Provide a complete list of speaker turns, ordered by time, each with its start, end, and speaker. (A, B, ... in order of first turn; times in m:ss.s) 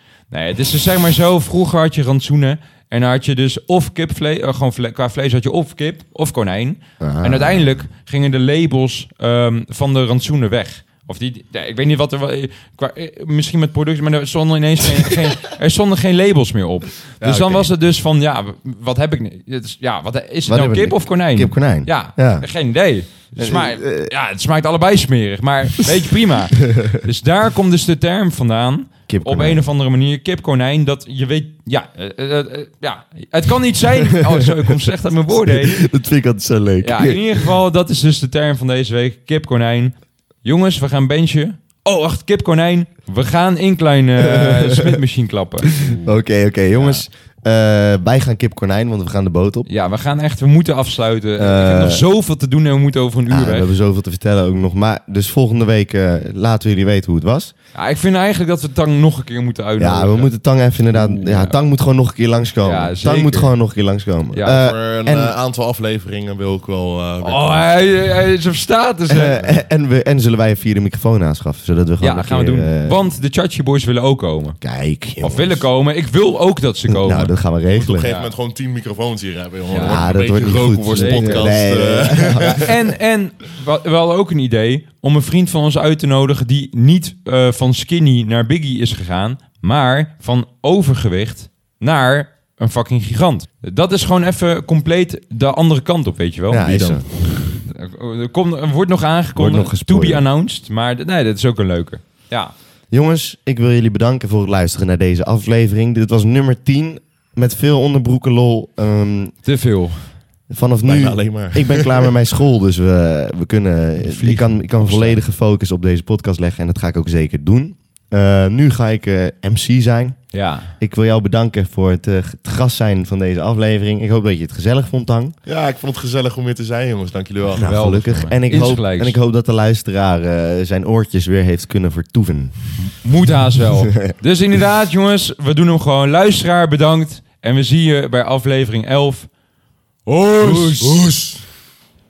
0:00.3-0:35.8 A
0:07.0-0:07.8 B
0:17.2-0:17.7 B
0:20.5-0:22.4 B
0:23.4-0:24.1 B
0:29.1-0:29.6 B
0:34.0-0:34.5 B
0:35.3-0:37.5 B
0:36.8-0:45.8 A
0:44.2-0:45.0 B
0:45.8-0:49.7 B
0:46.7-0:47.0 A
0:49.7-0:53.7 A
0:51.4-0:52.0 B
0:53.3-0:57.5 B
0:57.7-1:00.3 A
0:59.8-1:05.4 B
1:00.9-1:01.6 A
1:02.6-1:03.5 A
1:04.3-1:04.6 A
1:04.4-1:07.8 C
1:07.2-1:09.5 A
1:09.1-1:13.0 B
1:12.0-1:14.6 A
1:14.6-1:15.6 B
1:15.2-1:17.3 A
1:16.9-1:18.0 B
1:17.7-1:22.7 C
1:18.0-1:18.3 A
1:19.7-1:20.0 A
1:19.7-1:22.6 B
1:20.9-1:21.5 A
1:22.4-1:42.5 A
1:36.5-1:37.0 B
1:39.3-1:40.2 B
1:42.9-1:49.3 B
1:49.4-1:50.1 A
1:50.5-2:00.2 B
1:50.8-1:52.1 C
1:54.0-1:55.2 A
2:00.3-2:00.7 A
2:00.8-2:05.4 B
2:05.4-2:07.8 C
2:07.5-2:12.5 B
2:07.6-2:09.2 A
2:12.8-2:19.3 A
2:20.1-2:21.0 A
2:20.4-2:21.4 C